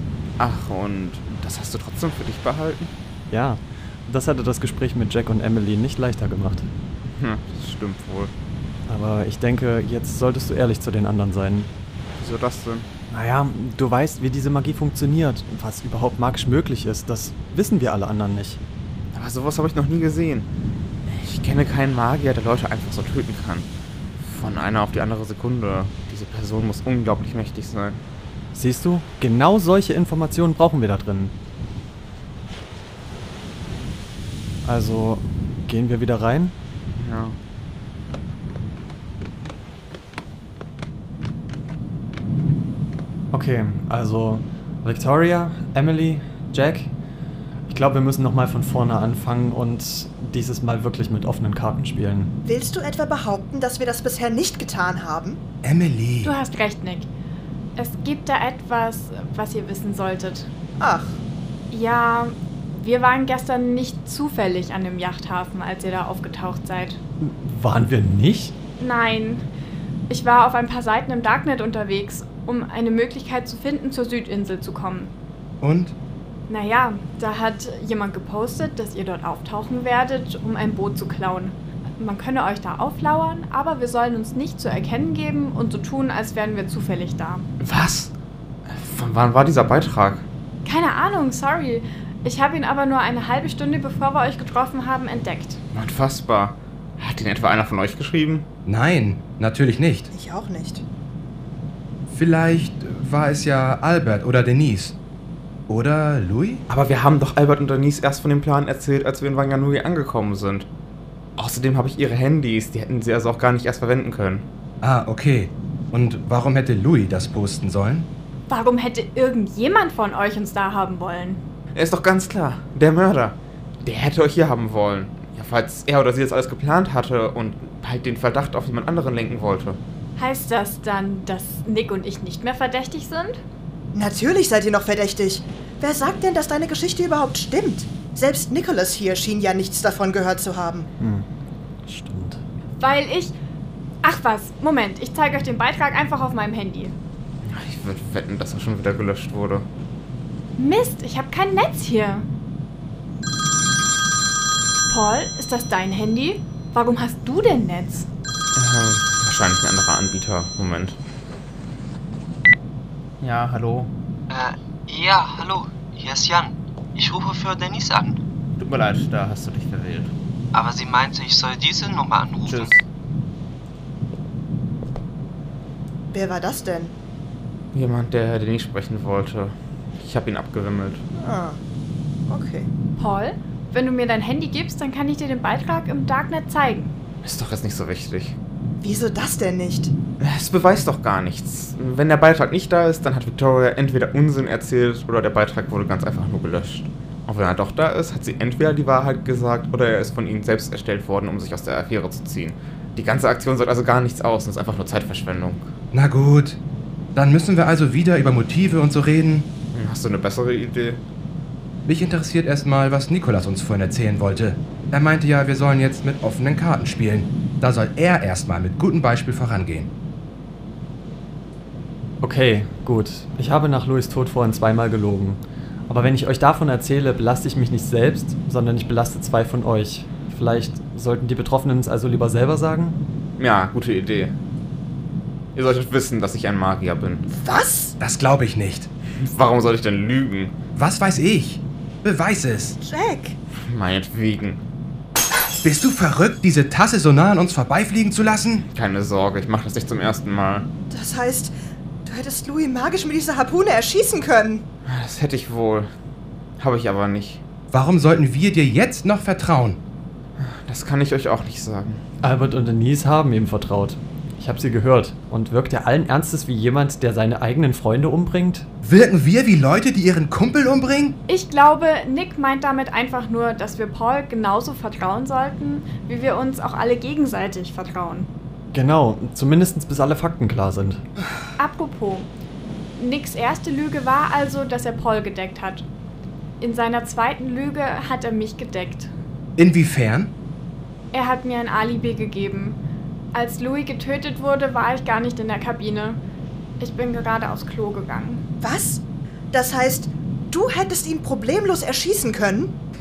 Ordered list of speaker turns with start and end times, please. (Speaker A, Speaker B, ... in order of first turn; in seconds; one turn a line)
Speaker A: 0.4-2.9
Speaker B: 3.3-6.7
Speaker A: 7.1-8.3
Speaker B: 8.9-11.7
Speaker A: 12.2-12.9
Speaker B: 13.1-18.6
Speaker A: 19.1-20.5
Speaker A: 21.1-23.7
Speaker A: 24.2-28.0
Speaker B: 28.5-31.3
Speaker B: 34.6-36.5
Speaker A: 37.0-37.4
Speaker B: 43.3-46.9
Speaker B: 47.7-52.3
Speaker C: 52.4-55.4
Speaker D: 55.6-56.3
Speaker E: 56.2-57.1
Speaker E: 57.8-60.5
Speaker C: 60.8-61.2
Speaker E: 61.7-67.0
Speaker B: 67.2-68.5
Speaker E: 68.8-69.5
Speaker E: 70.1-75.1
Speaker D: 75.6-76.0
Speaker E: 76.5-87.5
Speaker A: 87.6-88.1
Speaker A: 88.7-90.3
Speaker E: 90.7-95.6
Speaker A: 95.7-98.5
Speaker D: 98.7-100.1
Speaker C: 100.1-100.8
Speaker D: 102.1-105.0
Speaker D: 105.7-106.6
Speaker A: 106.7-110.7
Speaker A: 111.4-114.5
Speaker D: 114.8-118.1
Speaker E: 118.5-121.4
Speaker A: 121.8-129.8
Speaker E: 130.2-133.4
Speaker C: 133.9-140.9
Speaker B: 141.0-141.3
Speaker B: 141.8-142.4
Speaker E: 142.8-143.4
Speaker E: 144.0-146.9
Speaker A: 147.4-149.7
Speaker E: 150.6-152.3
Speaker E: 154.9-158.1
Speaker A: 158.6-161.0
Speaker A: 163.2-163.9
Speaker F: 164.3-168.2
Speaker A: 168.6-170.1
Speaker F: 170.5-172.7
Speaker A: 172.4-172.8
Speaker C: 176.1-176.9
Speaker A: 177.7-181.0
Speaker C: 181.2-181.6
Speaker C: 182.3-182.7
Speaker E: 183.0-186.9
Speaker A: 187.2-188.4
Speaker C: 188.8-189.9
Speaker A: 190.2-205.7
Speaker D: 205.9-206.6
Speaker D: 207.2-209.5
Speaker A: 209.7-211.0
Speaker D: 211.9-219.9
Speaker B: 222.2-233.0
Speaker A: 233.4-234.3
Speaker A: 235.6-237.2
Speaker C: 237.3-238.0
Speaker D: 238.0-238.9
Speaker A: 239.2-240.5
Speaker D: 240.8-242.8
Speaker C: 242.8-243.4
Speaker A: 243.6-244.6
Speaker D: 245.6-248.7
Speaker A: 248.7-250.7
Speaker C: 250.9-251.5
Speaker C: 252.1-254.7
Speaker A: 254.9-255.9
Speaker A: 256.6-257.4
Speaker D: 257.7-259.8
Speaker A: 260.4-262.0
Speaker B: 262.2-268.7
Speaker D: 268.8-271.2
Speaker E: 271.3-278.3
Speaker B: 278.7-281.0
Speaker E: 281.6-282.3
Speaker E: 283.0-285.9
Speaker E: 286.6-289.1
Speaker D: 289.6-290.3
Speaker E: 291.1-292.8
Speaker E: 293.3-296.2
Speaker E: 296.8-298.4
Speaker C: 298.6-302.8